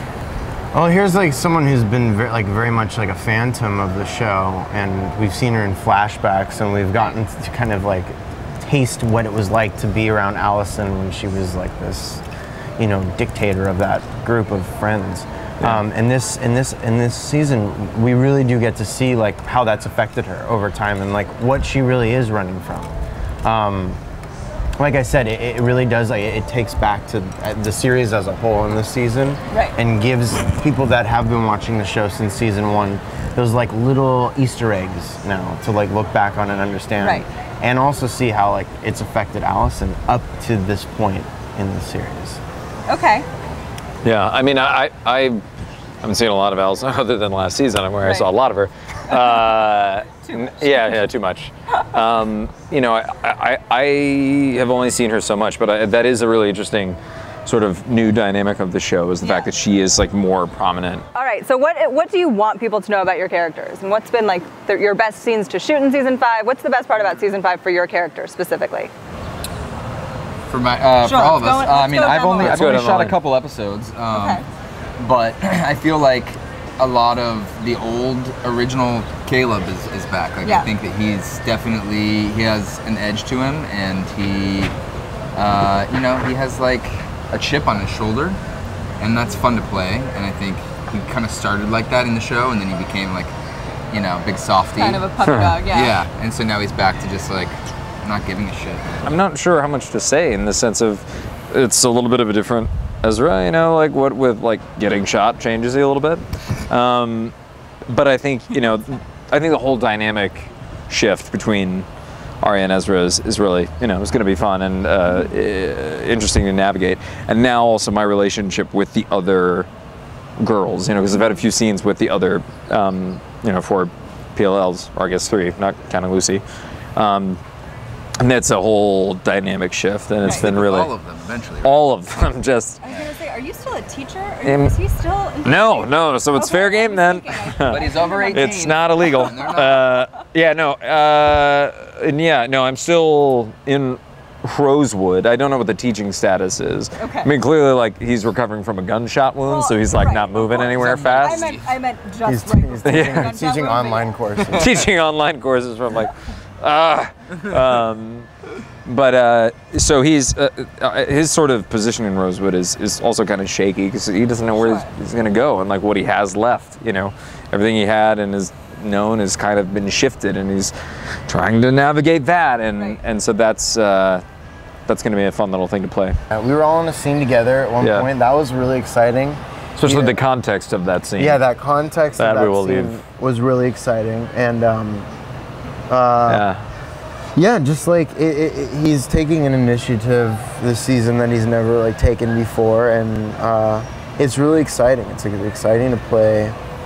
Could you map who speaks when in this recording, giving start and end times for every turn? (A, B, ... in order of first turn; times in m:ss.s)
0:00.7-0:12.2 A
0:12.8-0:24.0 A
0:24.8-0:42.4 A
0:29.5-0:29.8 B
0:37.0-0:37.3 B
0:42.9-0:43.3 B
0:44.0-0:45.4 C
0:46.0-1:01.0 C
0:48.0-0:48.3 B
0:50.3-0:50.8 B
0:59.2-0:59.5 B
1:01.1-1:08.9 B
1:10.5-1:14.4 D
1:11.0-1:12.6 B
1:12.4-1:13.2 C
1:14.1-1:14.4 B
1:15.0-1:24.7 D
1:20.4-1:20.7 B
1:25.3-1:28.4 D
1:29.0-1:33.3 D
1:33.9-1:35.1 D
1:34.8-1:36.0 B
1:35.3-1:35.6 C
1:35.7-1:38.9 D
1:39.0-1:47.3 C
1:47.9-1:51.9 C
1:52.4-1:59.7 C
2:00.4-2:06.4 C
2:07.0-2:07.4 C
2:08.2-2:10.9 C
2:10.2-2:10.5 B
2:10.3-2:12.0 D
2:11.6-2:12.8 C
2:12.8-2:19.8 B
2:14.4-2:14.8 C
2:15.4-2:31.6 C
2:17.7-2:20.0 D
2:27.0-2:27.3 B
2:29.4-2:34.2 B
2:30.5-2:31.7 D
2:32.2-2:34.8 A
2:32.8-2:33.3 C
2:34.5-2:38.3 C
2:38.8-2:50.7 C
2:44.5-2:44.9 B
2:51.3-2:54.2 C
2:52.8-2:53.0 B
2:54.9-2:56.2 C
2:56.3-3:00.2 A
2:57.8-2:58.1 C
2:59.8-3:01.4 C
3:01.2-3:05.1 A
3:02.2-3:03.0 C
3:05.9-3:06.4 A
3:06.3-3:06.6 C
3:07.4-3:16.6 A